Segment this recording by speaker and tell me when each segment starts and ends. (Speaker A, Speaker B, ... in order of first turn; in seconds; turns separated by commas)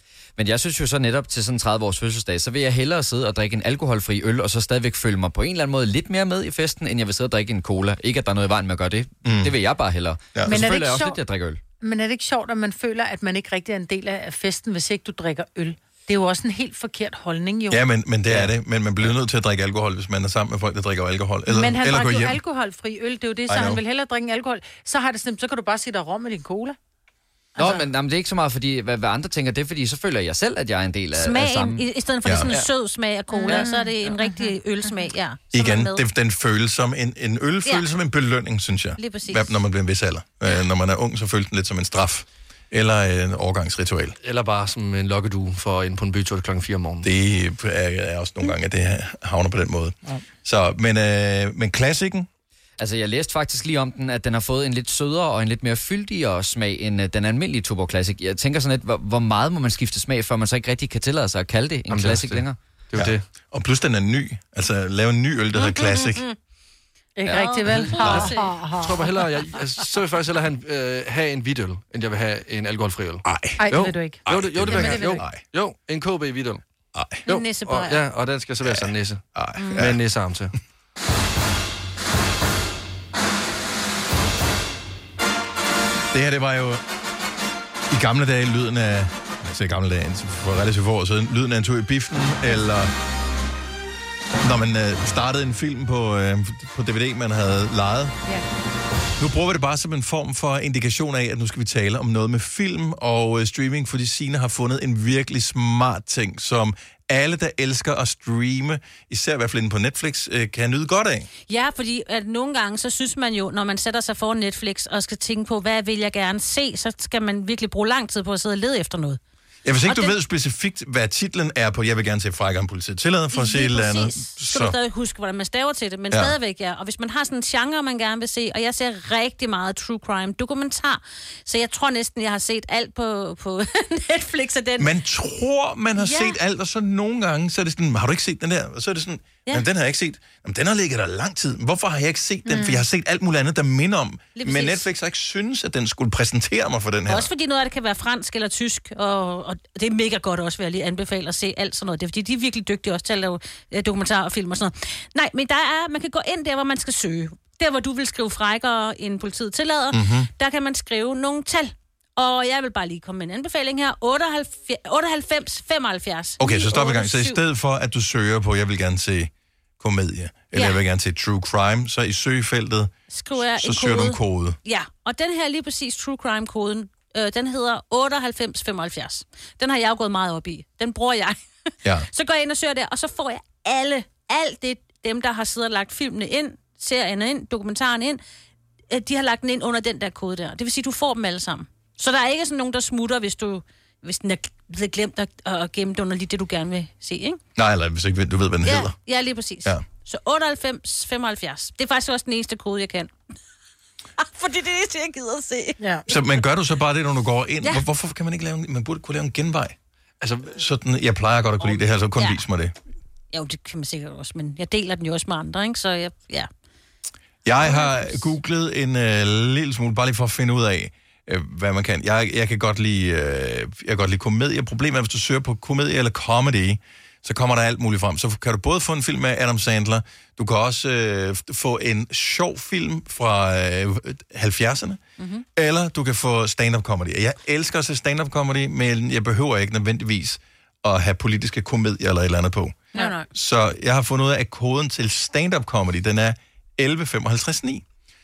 Speaker A: 0.4-11.6, Speaker B: 9.2-9.5, Speaker C: 10.4-11.2, Speaker C: 11.8-17.8, Speaker B: 17.7-22.4, Speaker C: 21.5-26.8, Speaker B: 23.5-23.8, Speaker A: 27.6-31.8, Speaker D: 31.1-36.0, Speaker C: 33.3-34.5, Speaker B: 35.5-44.1, Speaker D: 39.0-39.5, Speaker E: 44.2-47.1, Speaker B: 47.0-52.3, Speaker A: 52.8-62.6, Speaker E: 61.9-63.2, Speaker B: 62.9-66.2, Speaker D: 65.5-66.3, Speaker C: 67.2-69.0, Speaker A: 67.2-68.1, Speaker D: 67.3-68.6, Speaker E: 68.8-76.6, Speaker B: 73.2-75.4, Speaker C: 73.6-75.2, Speaker B: 76.9-77.2, Speaker E: 77.2-80.5, Speaker D: 77.3-78.0, Speaker B: 78.6-80.0, Speaker D: 79.6-79.8, Speaker B: 86.1-86.8, Speaker B: 87.9-92.9, Speaker B: 94.4-98.1, Speaker B: 99.2-111.3, Speaker D: 111.5-119.2, Speaker B: 119.6-124.8, Speaker D: 119.8-120.1, Speaker D: 123.3-134.9, Speaker B: 134.8-147.3, Speaker C: 142.5-142.8, Speaker D: 144.3-144.8, Speaker D: 147.1-167.4, Speaker B: 159.9-160.3, Speaker B: 166.4-174.6, Speaker D: 170.5-170.8, Speaker D: 173.1-181.4, Speaker D: 182.1-188.2, Speaker D: 188.9-197.4, Speaker B: 197.5-198.9, Speaker D: 198.6-203.1, Speaker D: 204.2-205.8, Speaker B: 206.1-209.8, Speaker E: 210.2-210.6, Speaker B: 210.5-212.7, Speaker D: 213.3-216.5, Speaker B: 217.4-235.0, Speaker D: 217.6-218.2, Speaker D: 235.2-235.4, Speaker B: 235.6-247.8, Speaker D: 242.9-243.2